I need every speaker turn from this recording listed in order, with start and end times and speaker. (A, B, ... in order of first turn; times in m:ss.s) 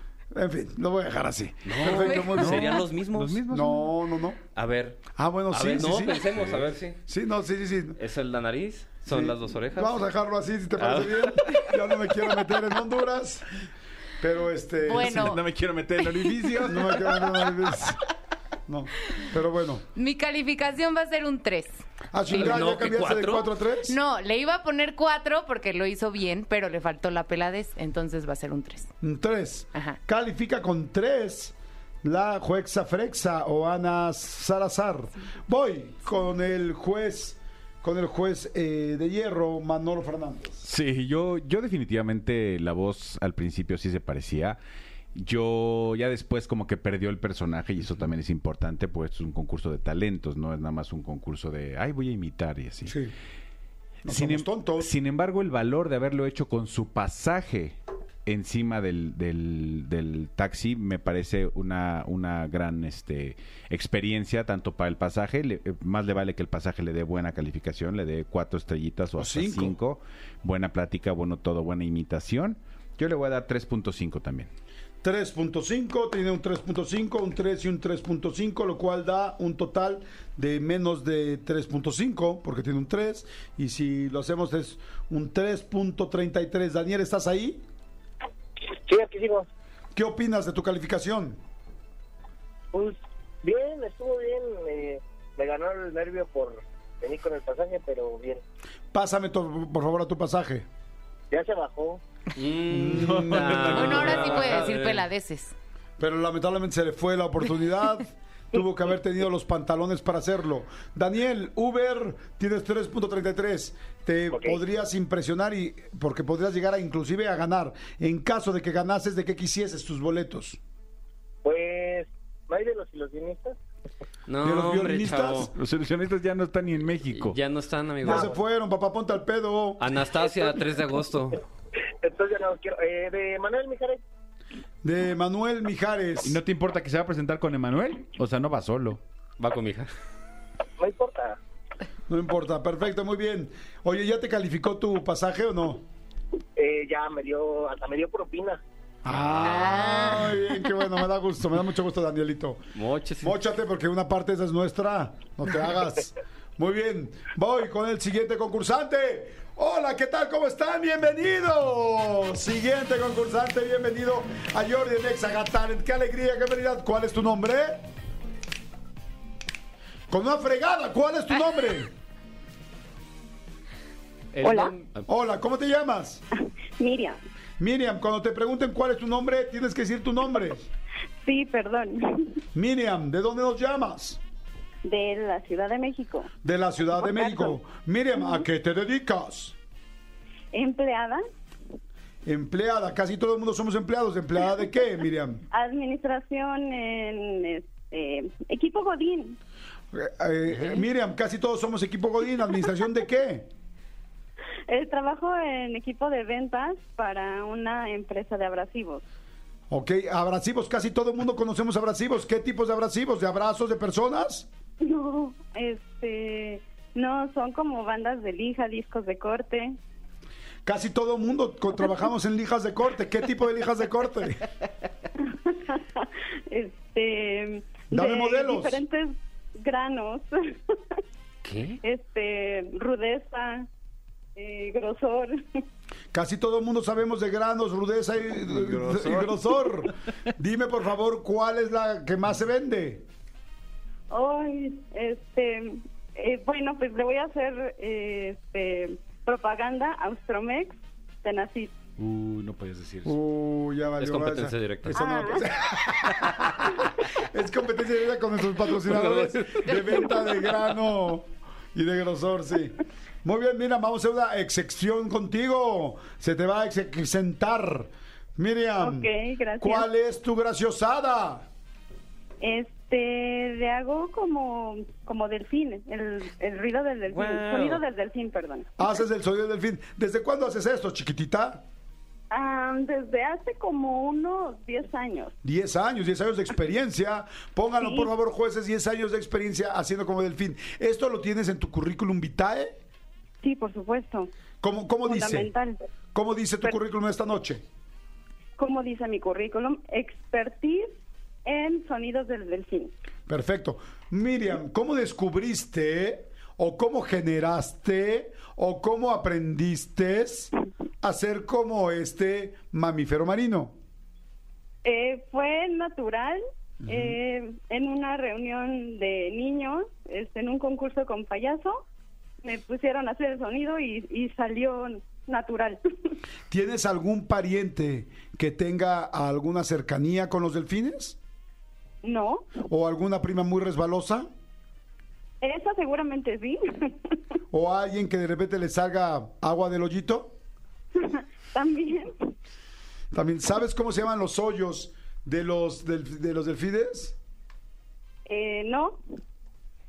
0:00.3-0:02.8 A
0:01.6-0:03.4 B
0:02.3-0:03.9 C
0:03.5-0:04.4 A
0:04.5-0:07.0 B
0:05.1-0:08.0 A
0:08.0-0:10.1 B
0:09.1-0:13.5 A
0:10.8-0:11.7 B
0:14.2-0:15.4 A
0:14.8-0:15.4 D
0:15.0-0:17.7 C
0:16.0-0:16.6 D
0:16.6-0:18.0 A
0:18.7-0:19.8 A
0:20.0-0:21.8 D
0:22.1-0:24.0 A
0:22.3-0:23.5 B
0:23.8-0:28.9 D
0:29.0-0:40.6 A
0:40.6-0:44.6 C
0:45.1-0:53.0 C
0:52.8-0:53.1 A
0:54.0-0:54.9 A
0:54.0-1:14.5 C
1:09.2-1:09.8 A
1:15.0-1:27.6 A
1:28.7-1:29.5 E
1:29.9-1:31.4 A
1:32.7-1:38.4 E
1:38.9-1:40.7 A
1:41.3-1:42.0 E
1:42.3-1:45.0 B
1:42.7-1:44.3 A
1:42.9-1:44.6 C
1:43.7-1:45.5 D
1:46.0-2:00.6 A
1:54.3-1:54.6 E
2:01.4-2:03.6 E
2:04.3-2:05.5 B
2:04.4-2:05.5 A
2:05.5-2:07.4 C
2:07.1-2:08.3 B
2:08.0-2:09.8 A
2:08.1-2:08.3 E
2:09.8-2:11.4 B
2:12.0-2:14.0 E
2:14.8-2:16.4 A
2:16.2-2:19.0 C
2:19.4-2:19.9 B
2:20.8-2:21.4 E
2:22.1-2:25.8 A
2:26.6-2:28.6 E
2:29.0-2:32.6 A
2:29.1-2:30.0 C
2:32.7-2:33.4 B
2:33.2-2:47.8 A
2:50.1-2:51.9 A
2:54.3-2:55.0 B
2:54.4-2:54.7 F
2:55.1-2:56.2 A
2:56.8-2:57.2 F
2:57.6-3:00.6 A
3:01.2-3:02.4 F
3:02.5-3:04.2 A
3:04.8-3:06.3 F
3:06.4-3:09.6 A
3:07.0-3:07.6 F
3:10.5-3:11.2 F
3:12.2-3:15.4 A
3:15.5-3:19.4 F
3:19.9-3:23.5 A
3:24.7-3:29.0 F
3:29.7-3:34.5 A
3:34.8-3:39.8 F
3:40.6-3:44.5 A
3:45.3-3:51.0 F
3:47.9-3:48.8 A
3:51.4-3:51.8 B
3:51.8-3:53.7 F
3:54.4-3:55.4 F
3:56.1-4:03.0 A
4:04.1-4:11.7 F
4:12.0-4:13.1 C
4:13.0-4:29.1 A
4:14.0-4:15.0 B
4:14.9-4:15.5 F
4:18.8-4:19.9 B
4:28.8-4:29.9 F
4:29.6-4:31.5 A
4:32.4-4:38.7 F
4:37.1-4:37.8 B
4:38.8-4:41.6 A
4:42.3-4:45.3 F
4:45.4-4:52.8 A
4:47.8-4:48.1 F
4:53.4-4:54.3 F
4:54.6-4:55.5 A
4:55.0-4:55.8 F
4:56.1-4:57.6 A
4:58.6-5:02.9 F
5:03.3-5:13.8 A
5:14.8-5:21.8 F
5:16.8-5:17.1 A
5:22.4-5:25.8 F
5:26.5-5:31.2 A
5:32.0-5:32.5 F
5:32.7-5:34.3 A
5:35.4-5:37.0 F
5:37.5-5:40.4 A
5:41.0-5:42.1 F
5:43.1-5:47.2 A
5:48.3-5:49.0 F